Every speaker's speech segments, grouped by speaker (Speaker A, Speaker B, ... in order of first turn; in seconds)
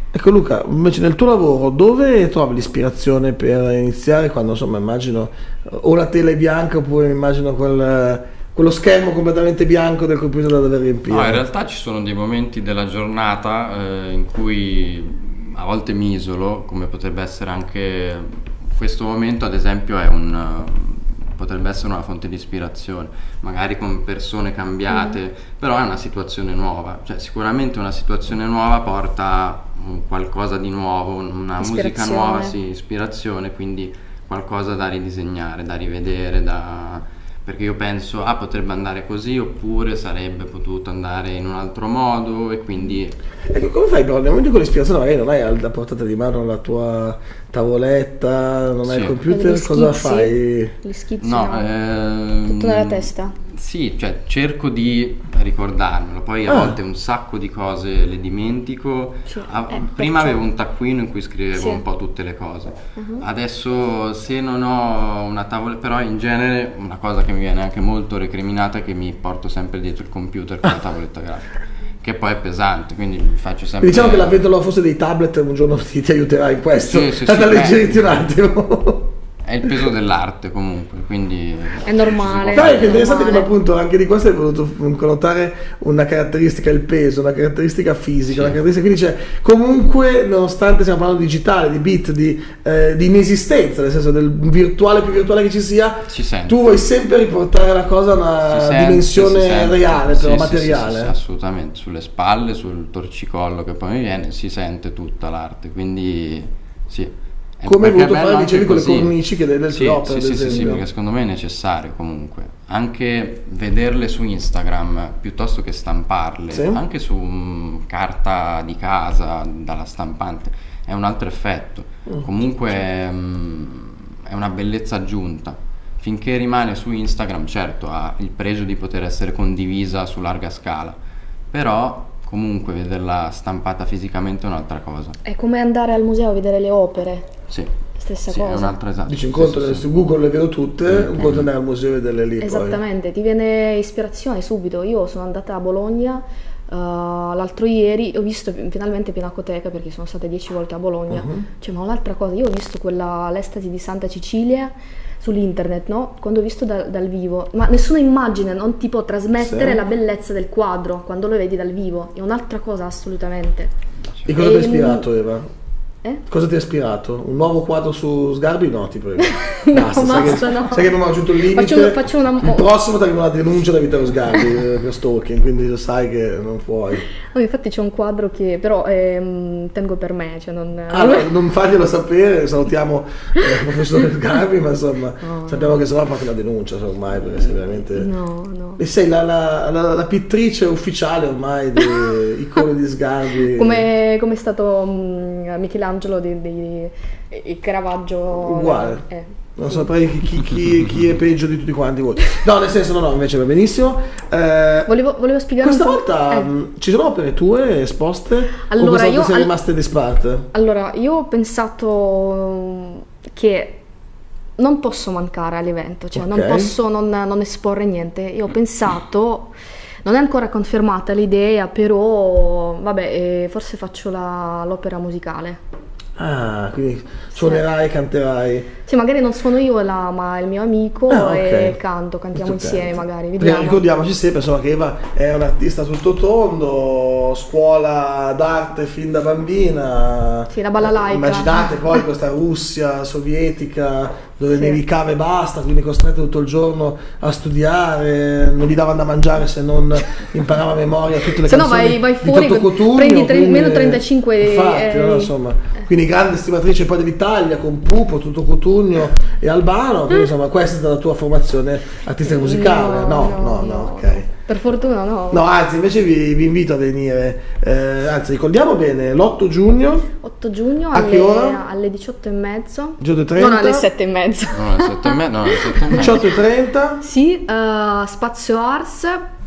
Speaker A: 0.1-11.4, 43.5-50.7, 56.5-56.8, 73.8-79.1, 82.5-101.1, 107.7-110.8, 116.5-116.8, 139.1-142.8, 151.1-151.4, 159.4-159.8, 164.2-165.5, 166.3-177.1, 180.9-188.1, 188.8-193.9, 198.4-199.0, 199.6-204.9, 205.6-210.5, 216.1-216.7, 226.2-228.7, 231.1-231.8, 232.3-264.2, 265.3-270.1, 270.9-271.6, 273.0-273.9, 275.9-277.0
Speaker B: 11.1-43.1, 48.9-49.2, 51.2-74.4, 76.8-78.0, 79.4-83.1, 88.3-88.6, 96.1-96.6, 98.5-109.1, 109.7-131.0, 131.5-135.2, 138.3-139.9, 140.9-141.4, 274.5-276.3
Speaker C: 24.9-25.2, 31.6-32.5, 49.3-51.7, 52.5-53.4, 59.3-60.4, 61.5-61.8, 63.0-63.2, 81.8-83.5, 135.2-137.3, 138.0-138.7, 142.4-163.7, 164.3-165.1, 169.2-172.7, 177.2-181.3, 185.2-185.8, 187.9-188.8, 191.8-192.1, 193.5-199.8, 204.9-206.5, 208.6-209.5, 210.5-213.8, 214.6-225.6, 227.3-227.6, 228.8-233.8, 240.5-242.0, 244.5-244.8, 251.4-255.3, 262.2-265.4, 270.2-276.1, 277.0-279.2